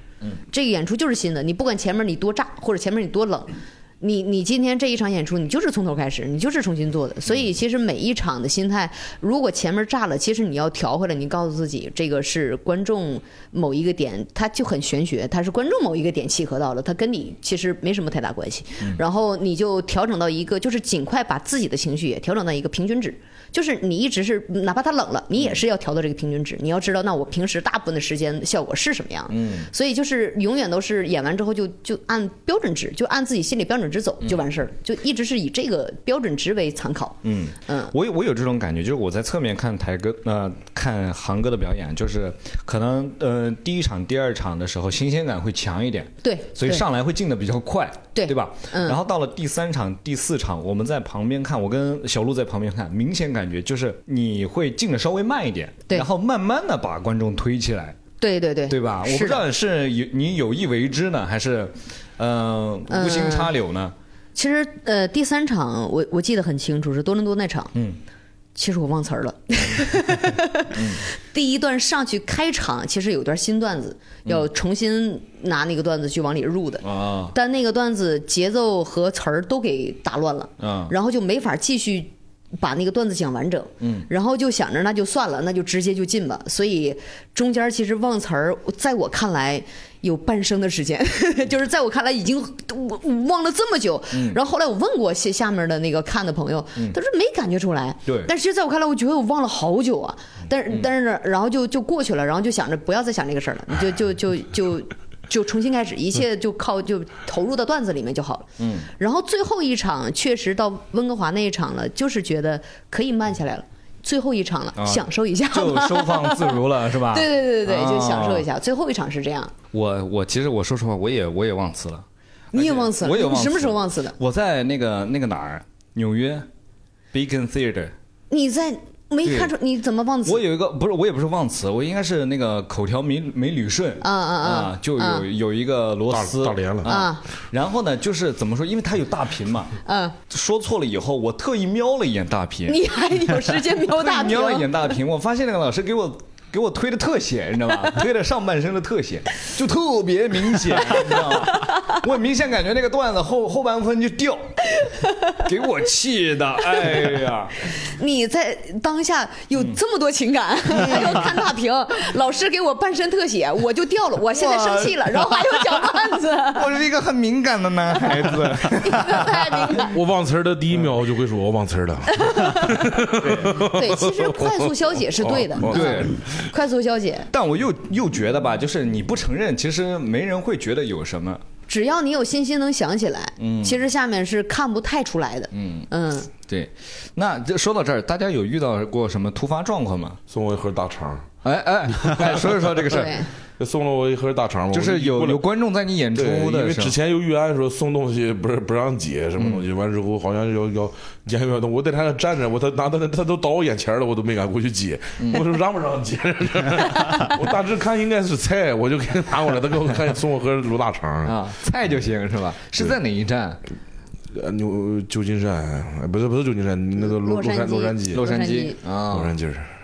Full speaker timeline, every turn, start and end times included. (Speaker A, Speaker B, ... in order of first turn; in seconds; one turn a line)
Speaker A: 0.5-37.9
Speaker B: 29.3-29.7
Speaker B: 37.2-58.0
Speaker A: 46.2-46.9
Speaker A: 48.1-49.0
Speaker A: 58.2-59.4
Speaker B: 58.7-64.0
Speaker A: 62.9-63.5
Speaker A: 64.3-67.7
Speaker A: 68.5-119.5
Speaker B: 70.7-71.1
Speaker B: 76.8-77.4
Speaker B: 80.6-81.0
Speaker B: 83.8-84.1
Speaker B: 94.1-94.4
Speaker B: 98.1-98.3
Speaker B: 108.6-108.9
Speaker B: 114.8-118.5
Speaker B: 119.7-126.5
Speaker A: 122.5-124.2
Speaker B: 127.1-127.9
Speaker A: 128.3-130.4
Speaker B: 129.2-129.5
Speaker B: 130.2-139.7
Speaker A: 134.0-135.3
Speaker C: 136.1-137.0
Speaker A: 136.8-137.2
Speaker A: 139.9-140.2
Speaker B: 140.3-142.8
Speaker A: 142.7-144.9
Speaker B: 143.8-154.8
Speaker A: 150.8-151.9
Speaker A: 154.8-155.3
Speaker B: 155.4-157.6
Speaker A: 156.8-157.1
Speaker A: 157.7-166.8
Speaker B: 160.7-161.4
Speaker B: 164.3-165.8
Speaker B: 166.5-169.9
Speaker A: 168.1-170.0
Speaker C: 169.9-176.5
Speaker A: 172.1-177.3
Speaker B: 173.1-173.6
Speaker B: 175.7-176.2
Speaker B: 177.3-181.4
Speaker A: 181.7-186.3
Speaker B: 183.4-183.8
Speaker B: 185.5-185.9
Speaker B: 186.4-190.2
Speaker C: 190.3-191.3
Speaker B: 191.4-193.2
Speaker A: 192.8-193.3
Speaker C: 193.6-195.4
Speaker B: 194.7-196.9
Speaker C: 196.2-211.4
Speaker B: 199.4-199.7
Speaker B: 205.2-205.5
Speaker B: 211.2-213.6
Speaker C: 214.3-218.3
Speaker A: 217.1-218.8
Speaker B: 218.1-219.3
Speaker C: 219.1-219.7